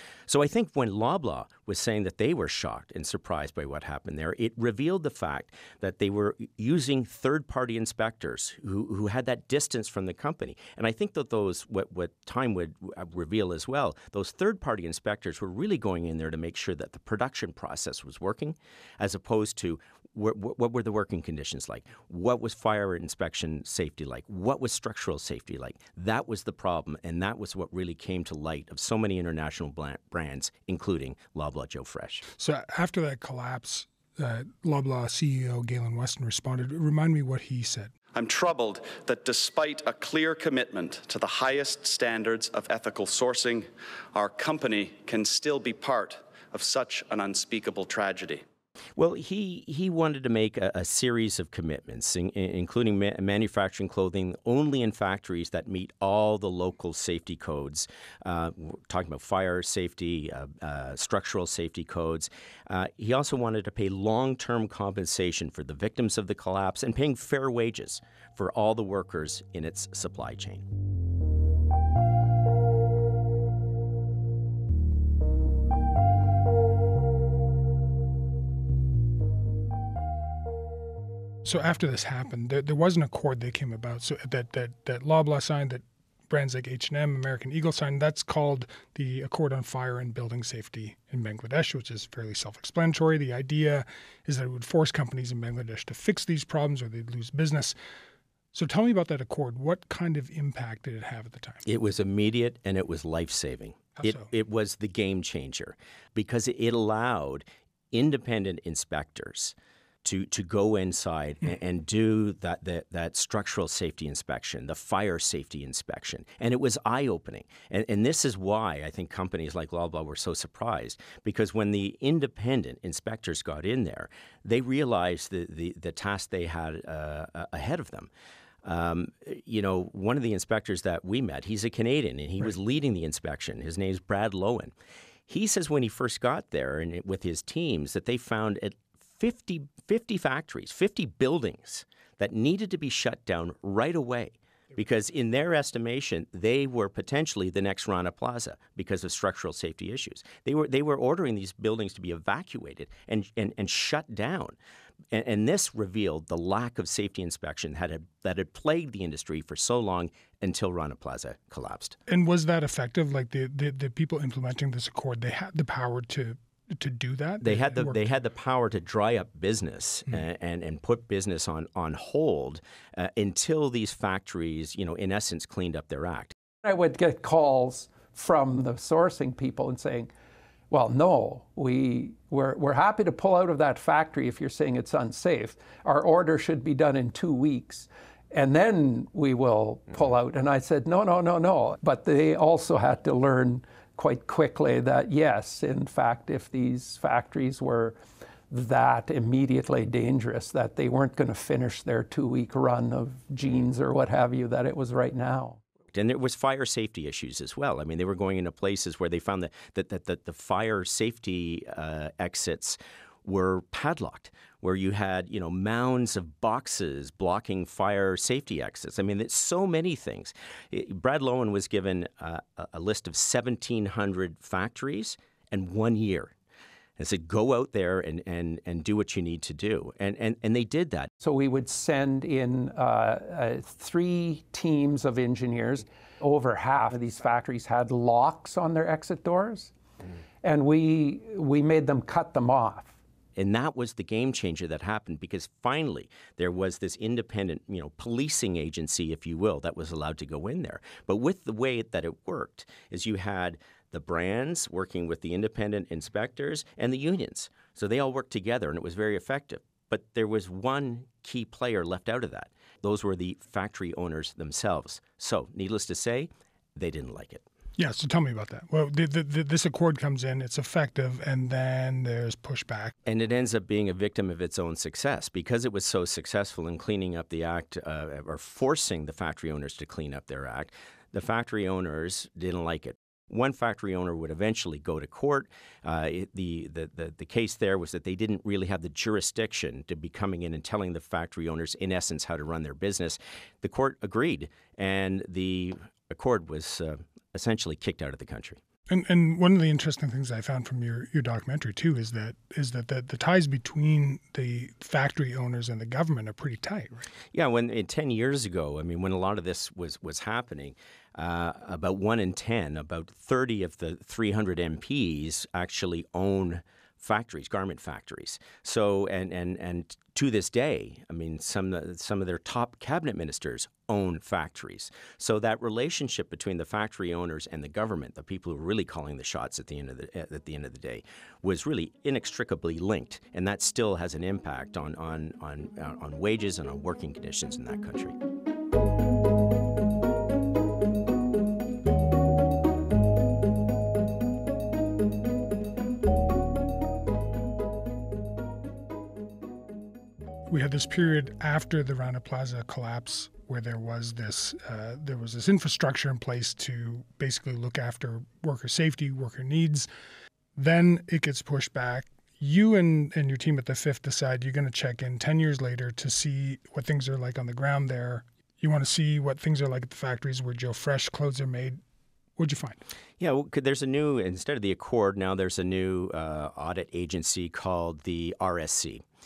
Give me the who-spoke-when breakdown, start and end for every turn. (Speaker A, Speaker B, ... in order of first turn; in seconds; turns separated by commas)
Speaker A: 0.3-32.2, Speaker B: 32.4-37.9, Speaker C: 38.1-48.4, Speaker A: 49.0-70.7, Speaker B: 81.5-97.8, Speaker B: 98.5-101.6, Speaker A: 101.7-128.1, Speaker B: 104.0-104.3, Speaker A: 128.6-134.7, Speaker A: 135.3-154.6, Speaker A: 155.1-162.0, Speaker B: 162.1-168.1, Speaker A: 167.4-176.3, Speaker D: 176.6-180.1, Speaker D: 180.7-198.0, Speaker D: 198.5-205.6, Speaker A: 205.9-226.3, Speaker A: 227.0-231.1, Speaker D: 231.2-239.7, Speaker D: 240.4-243.0, Speaker A: 243.4-267.4, Speaker B: 267.8-272.9, Speaker A: 273.1-298.6, Speaker B: 298.9-307.1, Speaker A: 307.3-338.2, Speaker B: 350.5-359.9, Speaker B: 360.6-371.8, Speaker B: 372.4-372.8, Speaker A: 373.2-379.0